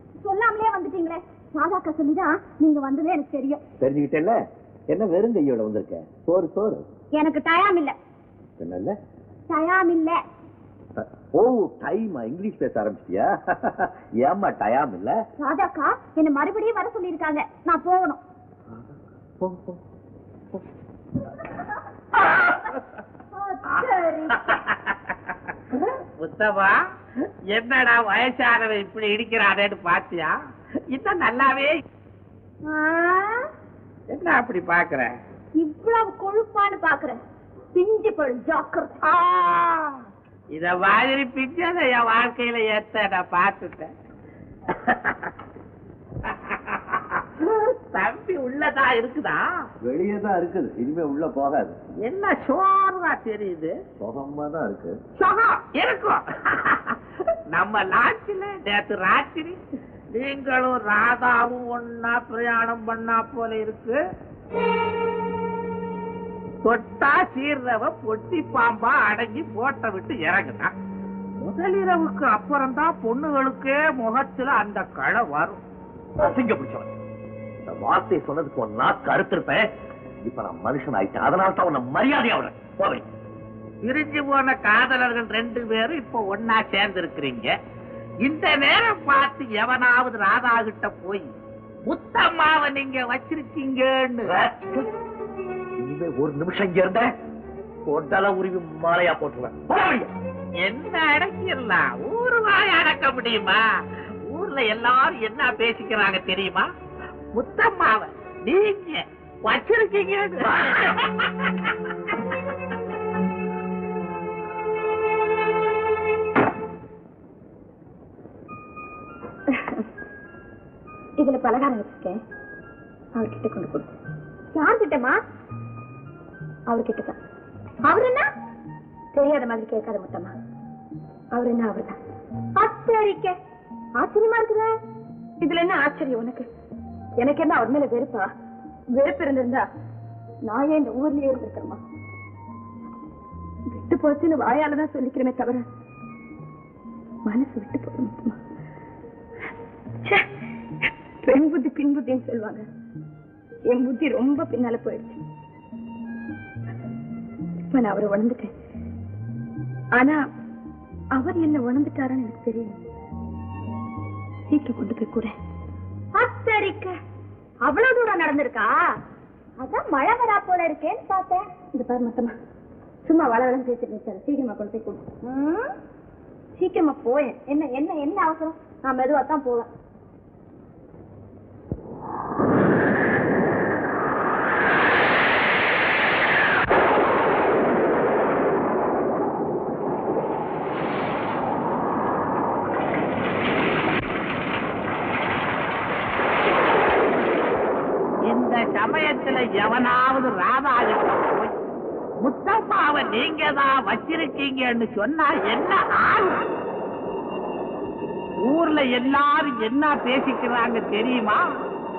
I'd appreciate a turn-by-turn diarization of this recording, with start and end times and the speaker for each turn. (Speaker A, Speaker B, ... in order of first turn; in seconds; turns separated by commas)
Speaker A: 0.2-3.6, Speaker B: 3.8-4.4, Speaker B: 4.9-6.8, Speaker A: 7.2-8.0, Speaker B: 8.6-8.9, Speaker A: 9.5-10.2, Speaker B: 11.0-15.2, Speaker A: 15.4-18.2, Speaker B: 19.4-19.8, Speaker A: 23.3-24.6, Speaker C: 24.4-25.1, Speaker C: 26.2-26.8, Speaker C: 27.5-30.3, Speaker C: 30.9-31.8, Speaker A: 32.6-33.5, Speaker C: 34.1-35.1, Speaker A: 35.6-37.2, Speaker A: 37.7-39.0, Speaker C: 39.0-40.0, Speaker C: 40.5-43.9, Speaker C: 44.7-45.3, Speaker C: 46.3-49.4, Speaker B: 49.8-51.8, Speaker C: 52.0-53.8, Speaker B: 54.0-55.0, Speaker C: 55.2-57.0, Speaker C: 57.5-59.6, Speaker C: 60.1-64.0, Speaker C: 66.6-70.7, Speaker C: 71.4-75.6, Speaker B: 76.2-76.9, Speaker B: 77.7-79.6, Speaker B: 80.2-83.0, Speaker C: 83.8-87.5, Speaker C: 88.2-91.3, Speaker C: 91.8-94.4, Speaker B: 94.3-94.8, Speaker B: 95.8-97.1, Speaker B: 97.8-100.1, Speaker C: 100.6-103.6, Speaker C: 104.3-106.7, Speaker C: 107.3-111.5, Speaker A: 119.5-119.8, Speaker A: 121.2-122.2, Speaker A: 123.2-123.9, Speaker A: 124.5-125.2, Speaker A: 126.7-127.2, Speaker A: 127.9-128.3, Speaker A: 129.2-130.3, Speaker A: 131.3-132.0, Speaker A: 132.6-133.3, Speaker A: 134.0-134.7, Speaker A: 135.4-136.4, Speaker A: 137.2-138.3, Speaker A: 139.0-139.6, Speaker A: 140.5-141.8, Speaker A: 143.7-145.7, Speaker A: 147.2-148.3, Speaker A: 151.2-152.7, Speaker A: 153.7-155.2, Speaker A: 157.7-158.5, Speaker A: 159.9-160.2, Speaker A: 161.2-162.8, Speaker A: 164.5-165.3, Speaker A: 166.1-166.9, Speaker A: 167.6-168.7, Speaker A: 169.6-172.3, Speaker A: 173.1-175.7, Speaker A: 176.6-179.7, Speaker C: 198.3-201.5, Speaker C: 202.2-206.4, Speaker C: 208.4-211.4